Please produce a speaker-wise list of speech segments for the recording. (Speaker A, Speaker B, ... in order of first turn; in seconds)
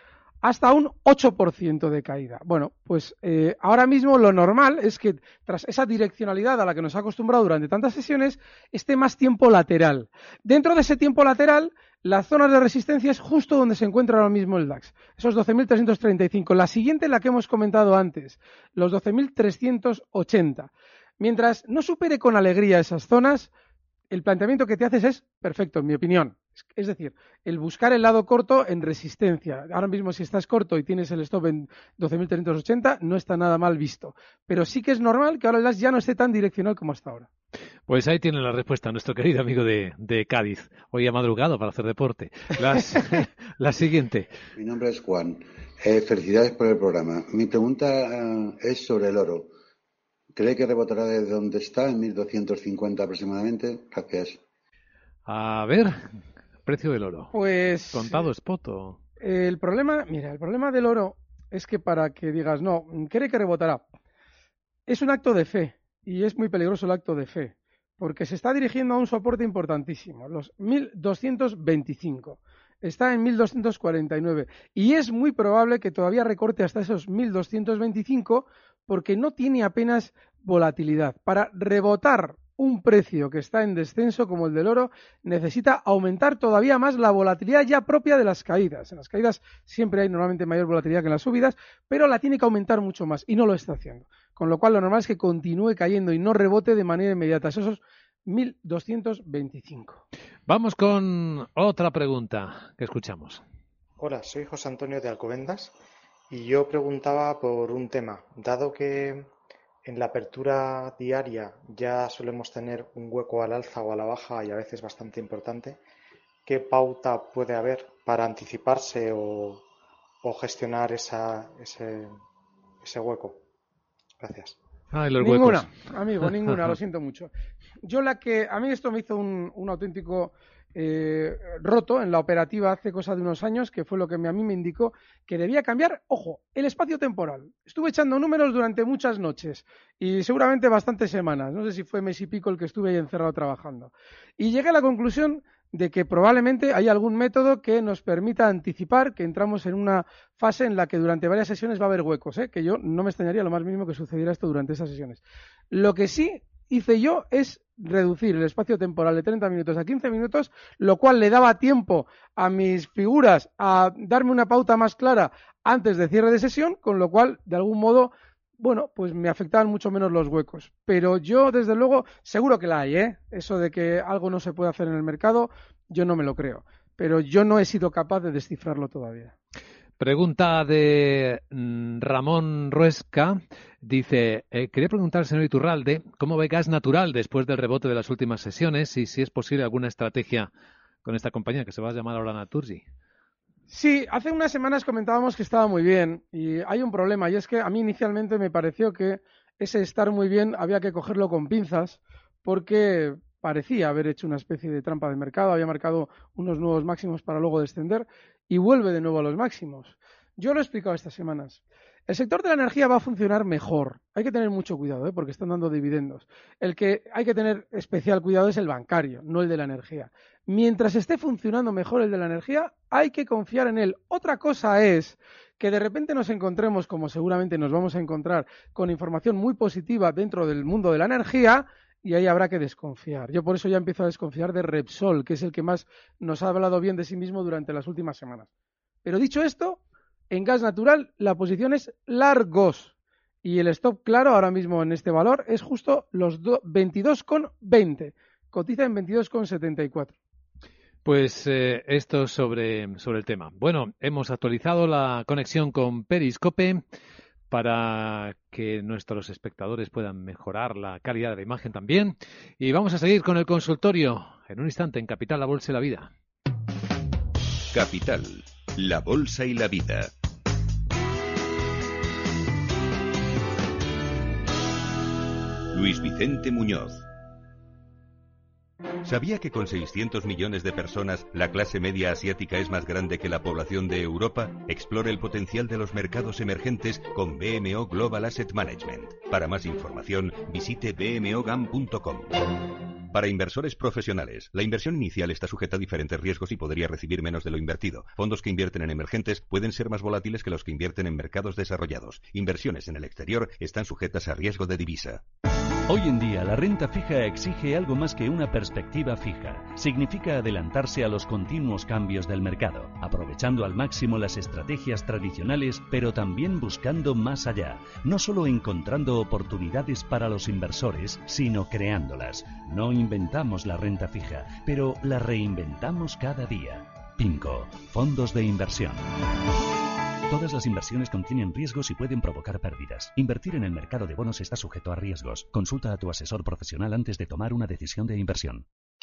Speaker A: 0.4-23.5, 24.1-37.3, 57.3-58.2, 59.2-63.9, 64.9-100.0, 125.2-127.3, 127.8-179.3, 193.7-238.5, 239.1-250.2
Speaker B: 37.9-44.3, 55.2-56.0, 56.6-57.3, 57.9-59.0, 100.5-103.4, 124.9-125.7, 180.0-190.5, 191.1-192.8, 251.1-256.8, 257.5-266.1
Speaker C: 44.6-49.5, 50.3-54.4
Speaker D: 104.0-105.7, 106.3-109.3, 109.8-115.8, 116.5-119.6, 120.2-122.2, 122.8-123.4, 124.2-124.6
Speaker E: 267.7-270.1, 275.7-277.0, 279.0-292.4, 293.1-305.2
Speaker F: 305.9-329.1, 330.3-338.6